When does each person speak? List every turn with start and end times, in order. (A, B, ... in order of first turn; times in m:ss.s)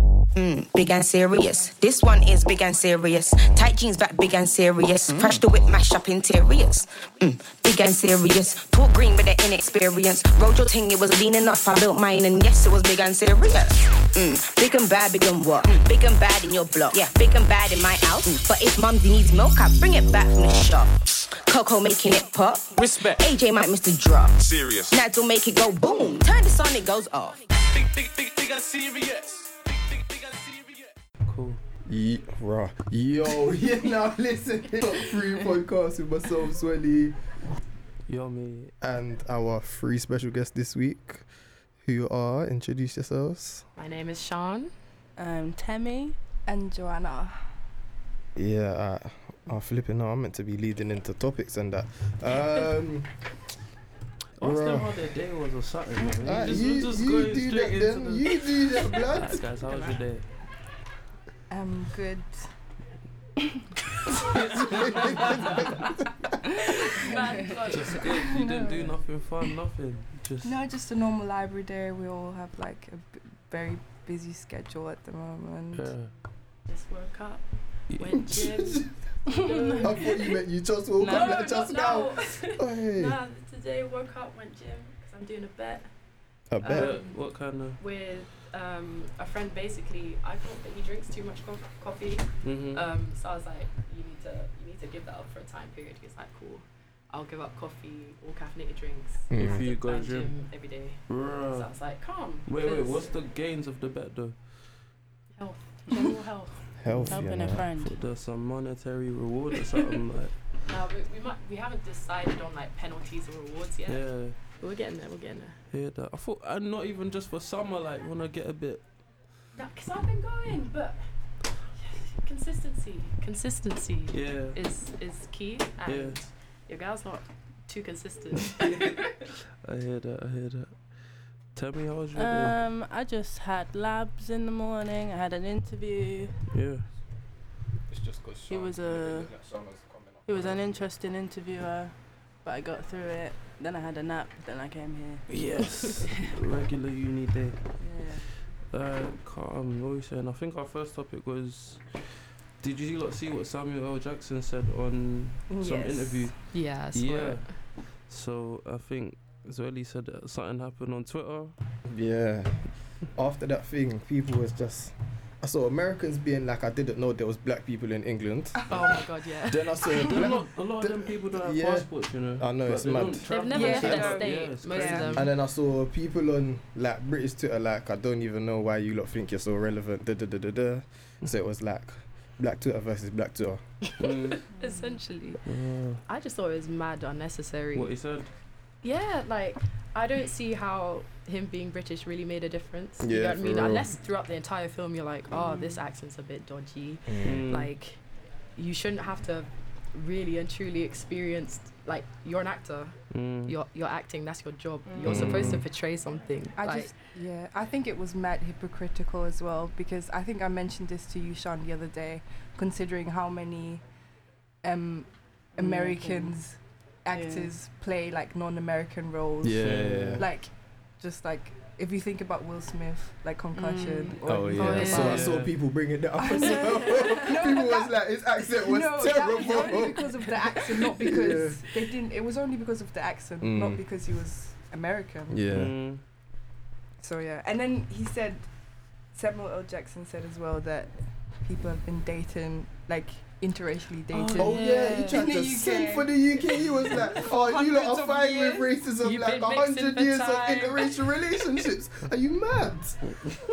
0:00.3-0:27.4 A
0:22.7-0:23.2 B
0:24.4-0:25.0 B
0:27.6-0:30.9 B
0:31.2-0:31.6 C
0:31.9-0:37.2 D
0:38.1-0:38.7 C
0:38.8-0:41.3 D
0:41.8-0:43.6 D
0:43.8-0:44.7 E
0:45.2-0:46.2 F
0:46.4-0:47.4 G
0:48.4-0:53.1 D
0:54.4-1:00.2 C
0:54.4-0:55.0 D
0:56.0-0:56.4 F
0:56.2-0:59.4 D
1:01.5-1:02.5 G
1:04.1-1:05.9 C
1:04.4-1:06.4 D
1:06.6-1:08.1 E
1:07.0-1:08.9 G
1:07.7-1:10.6 C
1:10.4-1:15.9 G
1:15.7-1:16.1 C
1:16.7-1:17.4 E
1:17.9-1:18.2 C
1:18.0-1:20.2 E
1:18.1-1:18.9 D
1:19.3-1:20.2 F
1:19.8-1:23.2 D
1:21.0-1:21.5 F
1:21.0-1:25.9 E
1:26.5-1:27.0 D
1:26.6-1:27.2 E
1:26.7-1:27.8 C
1:27.8-1:43.2 E
1:32.4-1:32.9 C
1:39.3-1:39.7 D
1:39.4-1:40.3 C
1:41.1-1:41.7 C
1:42.4-1:44.4 C
1:45.4-1:46.6 E
1:46.8-1:47.7 D
1:47.1-1:48.0 F
1:47.8-1:50.4 C
1:50.6-1:55.6 E
1:53.9-1:54.4 C
1:55.7-1:58.8 C
1:59.6-2:01.0 E
2:01.8-2:09.3 E
2:04.1-2:04.6 C
2:05.9-2:06.3 C
2:09.6-2:11.0 C
2:11.5-2:12.6 C
2:12.1-2:16.3 F
2:16.5-2:16.9 C
2:17.9-2:20.8 D
2:18.5-2:19.3 F
2:20.2-2:26.3 F
2:25.3-2:27.8 C
2:27.8-2:28.2 F
2:28.7-2:41.5 C
2:35.5-2:36.3 G
2:36.5-2:37.5 E
2:41.8-2:42.6 D
2:43.1-2:54.2 D
2:48.7-2:50.0 E
2:50.0-2:55.2 C
2:53.3-2:55.3 E
2:53.5-2:55.1 G
2:55.1-3:03.6 D
3:03.9-3:05.4 E
3:04.0-3:04.4 C
3:04.6-3:05.0 F
3:05.4-3:06.0 C
3:06.0-3:07.9 E
3:07.7-3:08.3 C
3:08.8-3:18.0 E
3:13.0-3:14.0 D
3:17.1-3:17.4 D
3:17.2-3:17.7 C
3:18.6-3:26.9 E
3:23.1-3:23.5 C
3:24.9-3:25.2 F
3:25.0-3:25.6 D
3:25.1-3:25.6 C
3:26.6-3:33.8 G
3:34.6-3:39.7 G
3:35.5-3:36.3 F
3:37.1-3:37.5 F
3:39.4-3:40.2 D
3:39.6-3:40.3 C
3:40.2-3:45.3 G
3:43.5-3:44.2 F
3:44.2-3:51.7 D
3:44.5-3:45.3 E
3:44.7-3:45.6 C
3:46.2-3:55.4 G
3:46.6-3:47.1 F
3:53.4-3:53.8 D
3:55.3-3:55.8 D
3:55.5-3:56.0 C
3:57.0-3:58.5 G
3:59.1-4:08.7 G
4:04.1-4:04.5 C
4:04.3-4:13.2 D
4:04.4-4:05.2 E
4:09.0-4:11.2 E
4:13.1-4:13.4 C